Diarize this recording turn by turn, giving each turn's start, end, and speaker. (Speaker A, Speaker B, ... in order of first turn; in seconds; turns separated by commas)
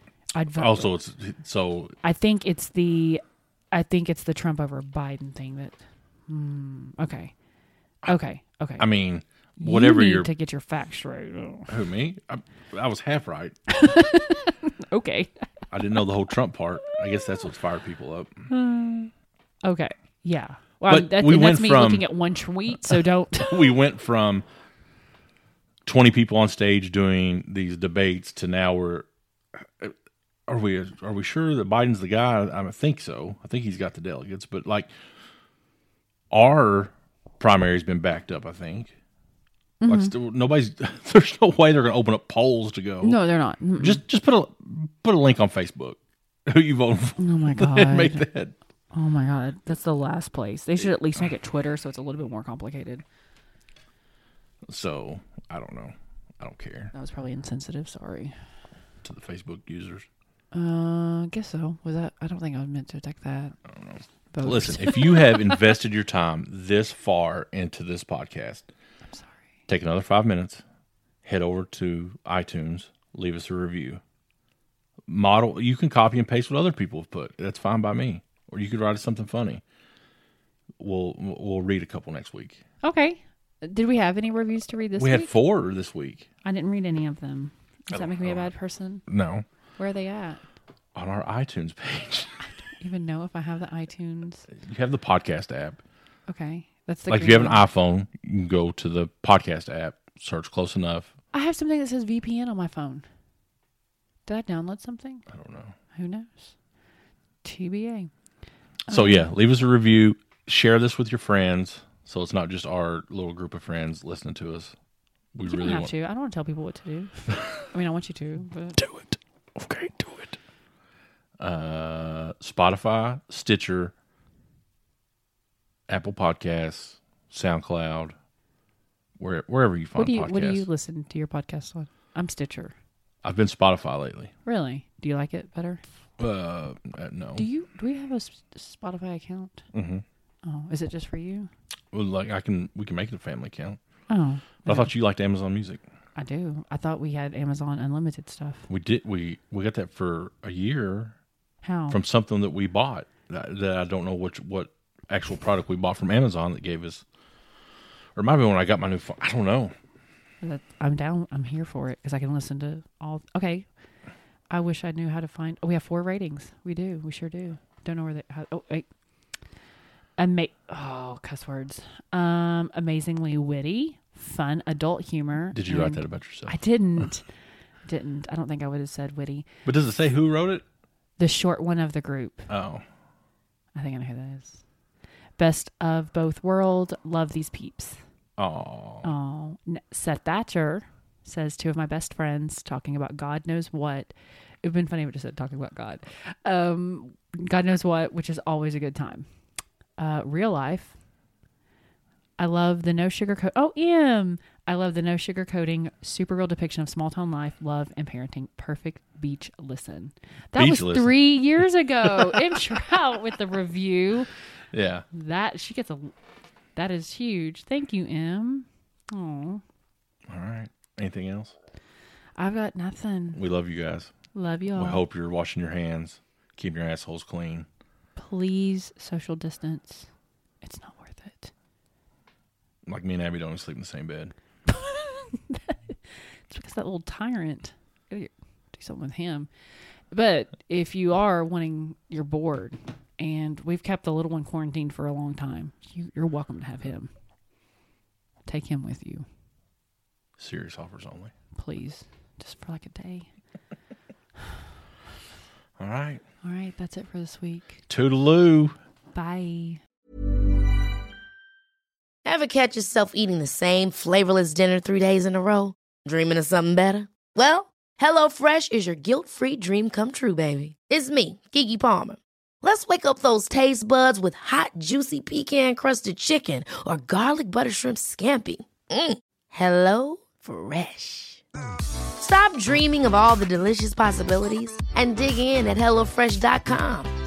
Speaker A: 0.3-0.9, Speaker B: 0.6-1.9, Speaker A: 2.0-7.3, Speaker A: 8.0-8.9, Speaker B: 8.8-10.3, Speaker A: 9.6-11.8, Speaker B: 11.7-13.6, Speaker A: 13.7-15.3, Speaker B: 15.7-18.5, Speaker A: 18.5-19.1, Speaker A: 19.6-23.7, Speaker B: 20.9-22.1, Speaker B: 22.9-24.4, Speaker B: 25.8-29.9, Speaker B: 30.5-34.9, Speaker B: 36.3-38.9, Speaker A: 39.8-40.1, Speaker B: 39.9-43.2, Speaker A: 43.0-44.0, Speaker B: 43.8-48.5, Speaker A: 47.2-48.2, Speaker A: 48.9-53.0, Speaker B: 54.7-56.9, Speaker A: 56.9-58.3, Speaker B: 59.0-60.1, Speaker A: 60.5-63.5, Speaker B: 63.7-68.7, Speaker A: 64.3-65.7, Speaker A: 69.1-69.4, Speaker B: 69.7-70.6, Speaker B: 71.2-74.0, Speaker B: 75.1-79.6, Speaker B: 80.8-82.6, Speaker A: 82.8-85.3, Speaker B: 85.0-86.3, Speaker A: 86.4-89.0, Speaker B: 87.9-88.5, Speaker B: 89.1-89.4, Speaker A: 89.8-90.4, Speaker B: 90.9-92.4, Speaker A: 92.4-94.5, Speaker B: 94.5-95.8, Speaker A: 96.3-97.6, Speaker B: 97.1-101.1, Speaker A: 101.3-103.0, Speaker A: 104.2-105.2, Speaker B: 105.3-105.7, Speaker A: 105.9-106.5, Speaker A: 107.4-108.1, Speaker A: 108.9-109.3, Speaker B: 108.9-114.7, Speaker B: 115.3-115.9, Speaker A: 115.5-118.8, Speaker B: 118.8-120.4, Speaker B: 121.4-123.9, Speaker B: 125.9-128.1, Speaker B: 129.2-130.7, Speaker A: 129.9-132.7, Speaker B: 133.2-134.3, Speaker A: 134.4-135.8, Speaker B: 136.2-137.4, Speaker A: 137.3-139.6, Speaker B: 139.7-140.0, Speaker A: 140.4-141.5, Speaker B: 141.9-143.8, Speaker A: 144.1-144.9, Speaker B: 144.6-145.8, Speaker A: 146.2-148.7, Speaker B: 148.7-151.1, Speaker A: 151.6-152.0, Speaker B: 151.9-157.0, Speaker B: 158.2-159.7, Speaker A: 160.4-163.7, Speaker A: 164.5-168.8, Speaker A: 170.2-177.3, Speaker B: 175.5-177.1, Speaker A: 177.8-179.5, Speaker B: 179.6-180.6, Speaker A: 181.2-182.5, Speaker B: 182.5-182.8, Speaker A: 183.7-184.6, Speaker A: 185.4-188.0, Speaker B: 188.4-189.1, Speaker A: 189.0-194.1, Speaker A: 194.6-199.3, Speaker A: 200.0-200.9, Speaker A: 202.4-214.3, Speaker B: 210.5-212.6, Speaker B: 214.7-215.0, Speaker A: 215.1-216.1, Speaker A: 216.8-219.6, Speaker B: 220.3-221.5, Speaker A: 222.4-223.4, Speaker B: 223.3-224.1, Speaker A: 224.3-225.0, Speaker B: 224.7-227.7, Speaker A: 228.2-230.1, Speaker A: 230.6-231.5, Speaker B: 232.8-234.3, Speaker A: 234.7-239.5, Speaker A: 240.1-247.1, Speaker A: 248.4-249.2, Speaker B: 250.4-251.3, Speaker A: 251.5-253.3, Speaker B: 255.8-256.2, Speaker A: 256.4-257.8, Speaker B: 257.9-258.8, Speaker A: 259.1-259.8, Speaker C: 262.2-281.4, Speaker C: 282.2-287.1